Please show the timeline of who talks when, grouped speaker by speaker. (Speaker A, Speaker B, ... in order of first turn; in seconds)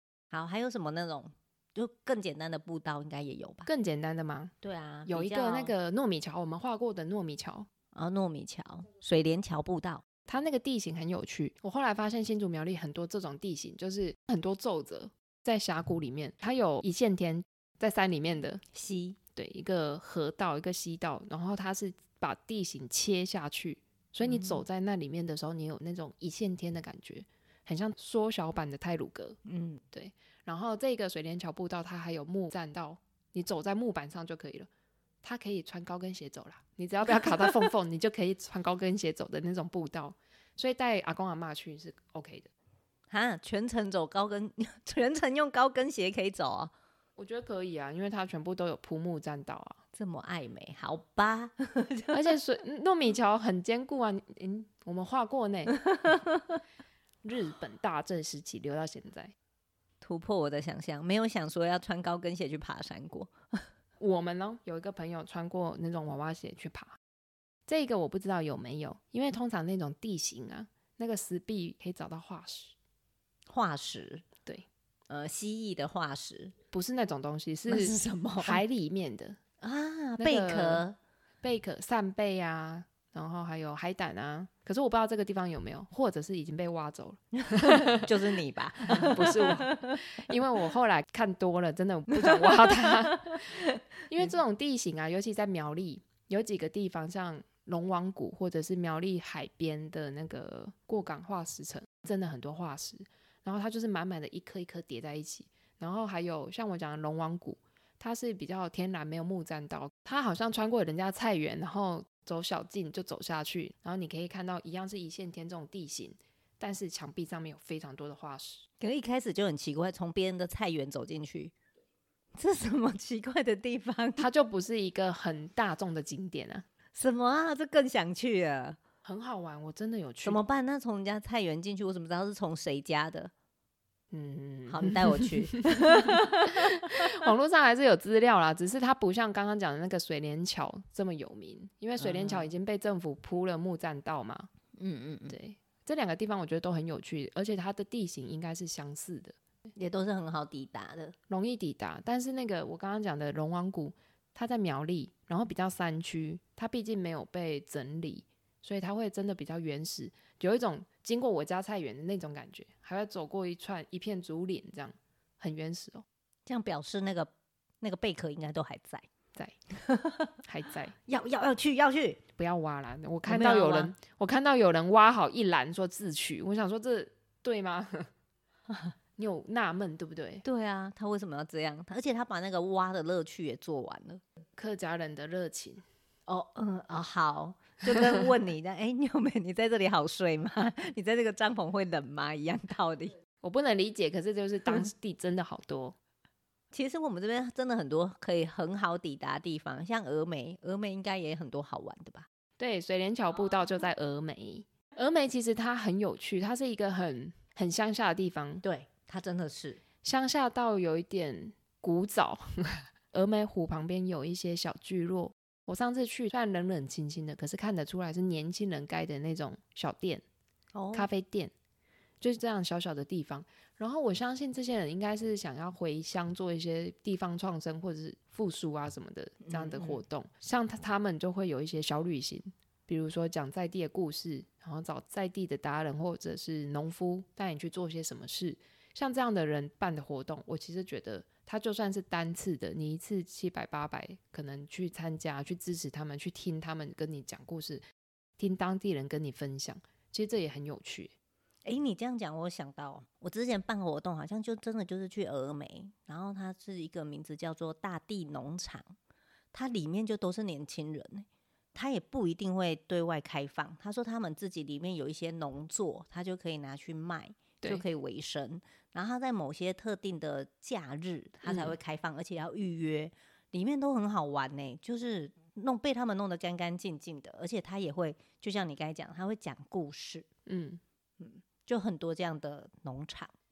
Speaker A: 0.3-3.7, 4.6-5.7, 7.9-10.0, 18.7-19.2, 24.2-24.6, 29.5-29.8, 43.1-46.7, 49.9-52.2, 55.7-56.6, 60.0-63.7, 73.5-74.3, 75.1-76.5, 77.7-78.6, 79.6-81.0, 87.5-90.0, 92.3-93.8, 118.8-121.5, 122.3-124.3, 126.9-128.8, 130.2-133.3, 134.7-137.1, 142.0-142.5, 144.8-145.4, 149.8-151.2, 166.5-169.1, 169.7-170.4, 171.1-172.2, 173.3-173.9, 178.7-178.9, 180.4-184.2, 186.3-193.2, 196.7-202.3, 208.6-209.8, 220.8-221.1, 229.4-230.0, 251.7-258.9, 259.5-280.3, 281.2-283.3
Speaker B: 3.7-4.5, 5.1-7.7, 10.3-18.6, 19.4-29.4, 29.9-34.7, 35.2-42.5, 47.2-49.8, 52.1-55.7, 57.2-59.3, 64.0-67.0, 67.7-72.7, 76.7-79.4, 80.2-80.8, 81.4-88.0, 88.9-118.6, 124.2-126.7, 129.0-130.4, 134.1-144.5, 145.3-149.4, 151.3-166.1, 170.5-170.9, 172.4-178.1, 179.2-180.4, 184.6-185.8, 193.4-195.9, 202.6-208.6, 210.0-220.2, 220.9-221.5, 222.2-247.8, 248.4-251.1, 271.5-271.8, 280.5-280.8